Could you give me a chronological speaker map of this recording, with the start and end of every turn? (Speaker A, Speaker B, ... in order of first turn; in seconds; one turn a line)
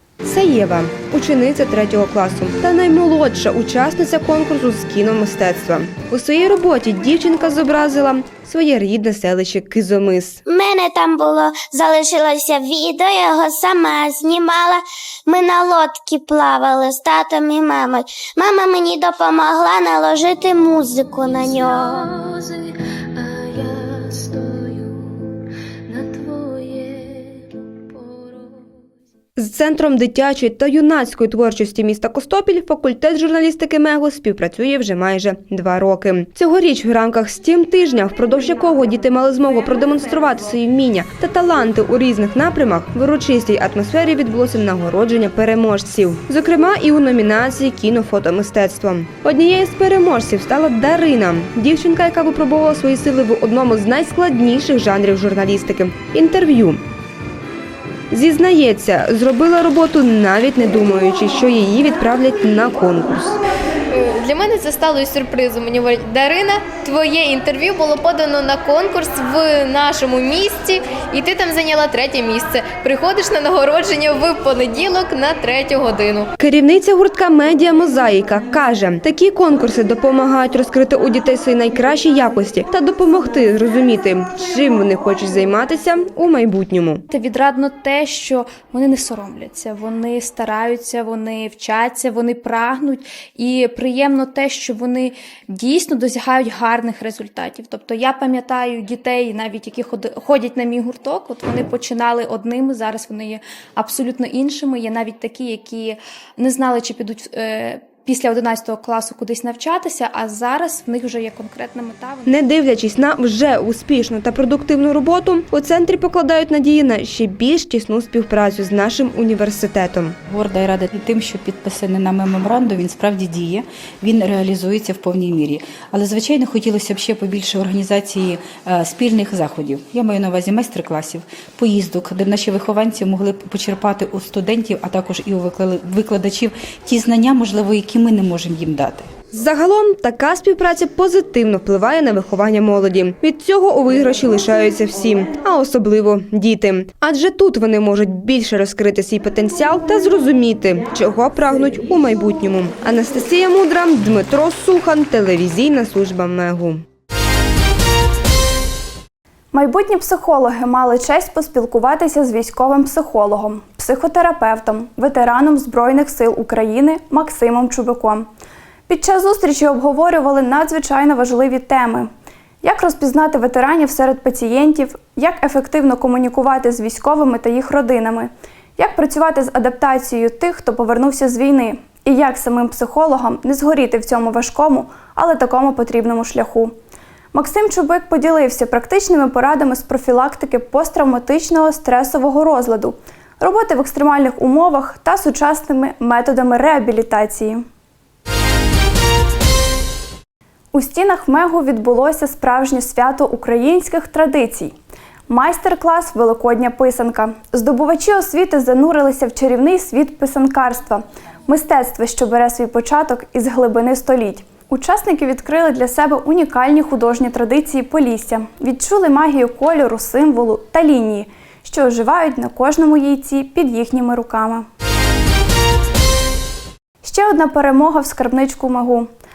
Speaker A: 0.2-10.4
Speaker B: 10.5-22.1
Speaker A: 29.4-56.8
Speaker A: 58.1-63.3
Speaker C: 63.9-76.3
Speaker A: 76.4-87.0
Speaker D: 87.1-112.4
Speaker A: 112.3-120.2
Speaker E: 120.2-139.1
Speaker A: 139.3-156.8
Speaker F: 159.5-168.3
Speaker F: 168.9-172.1
Speaker F: 172.6-186.8
Speaker F: 187.3-197.7
Speaker F: 200.7-204.8
Speaker F: 205.3-224.7
Speaker F: 227.0-229.1